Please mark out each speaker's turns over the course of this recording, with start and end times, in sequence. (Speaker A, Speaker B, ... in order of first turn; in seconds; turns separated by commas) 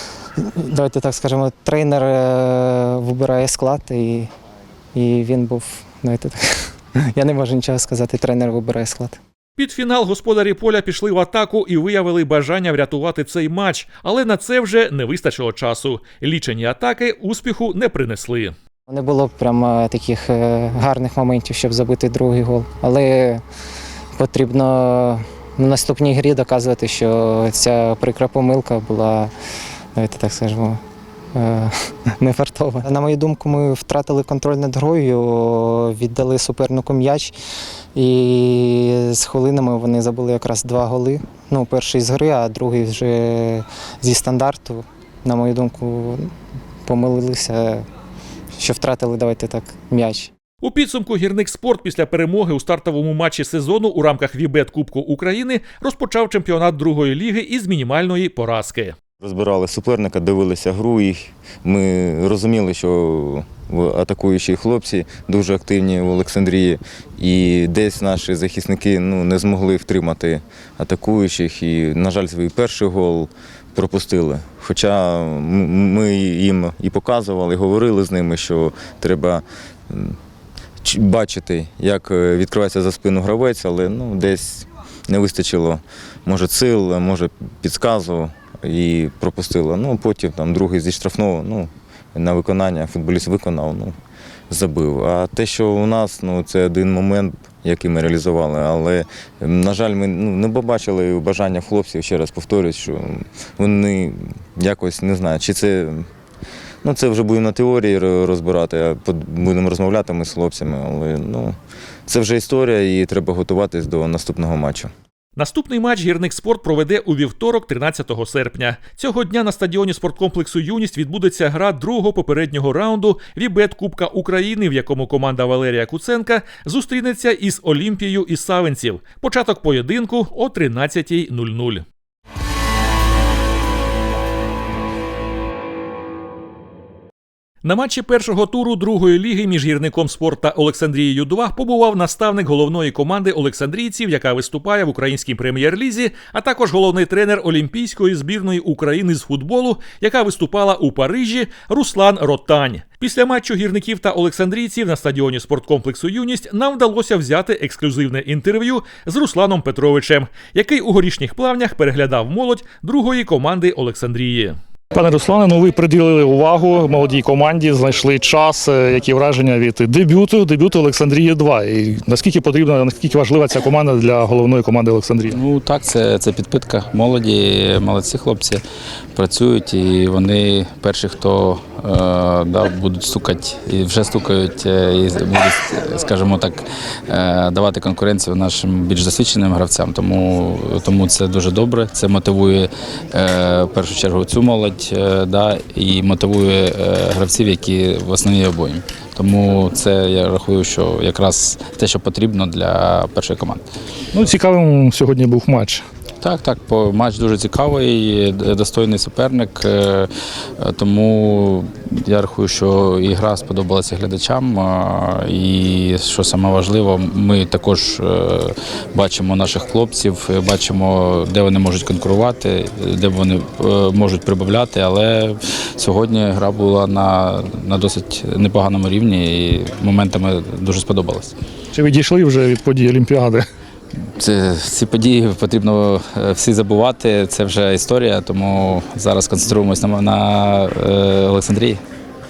Speaker A: 0.5-4.3, Speaker A: 4.9-6.4, Speaker A: 7.1-9.2, Speaker B: 9.6-18.5, Speaker A: 18.9-23.4, Speaker A: 24.2-29.3, Speaker A: 29.9-30.8, Speaker A: 31.3-37.3, Speaker A: 37.9-46.3, Speaker A: 46.9-47.8, Speaker A: 48.6-50.3, Speaker B: 50.6-58.9, Speaker C: 59.2-80.2, Speaker C: 80.8-93.9, Speaker C: 94.5-106.1, Speaker C: 106.8-111.5, Speaker C: 112.1-114.9, Speaker B: 115.4-131.8, Speaker B: 137.6-164.6, Speaker D: 164.9-175.4, Speaker E: 175.3-178.6, Speaker E: 179.1-203.6, Speaker D: 204.1-205.8, Speaker E: 206.2-231.3, Speaker D: 231.7-233.4, Speaker E: 234.2-241.8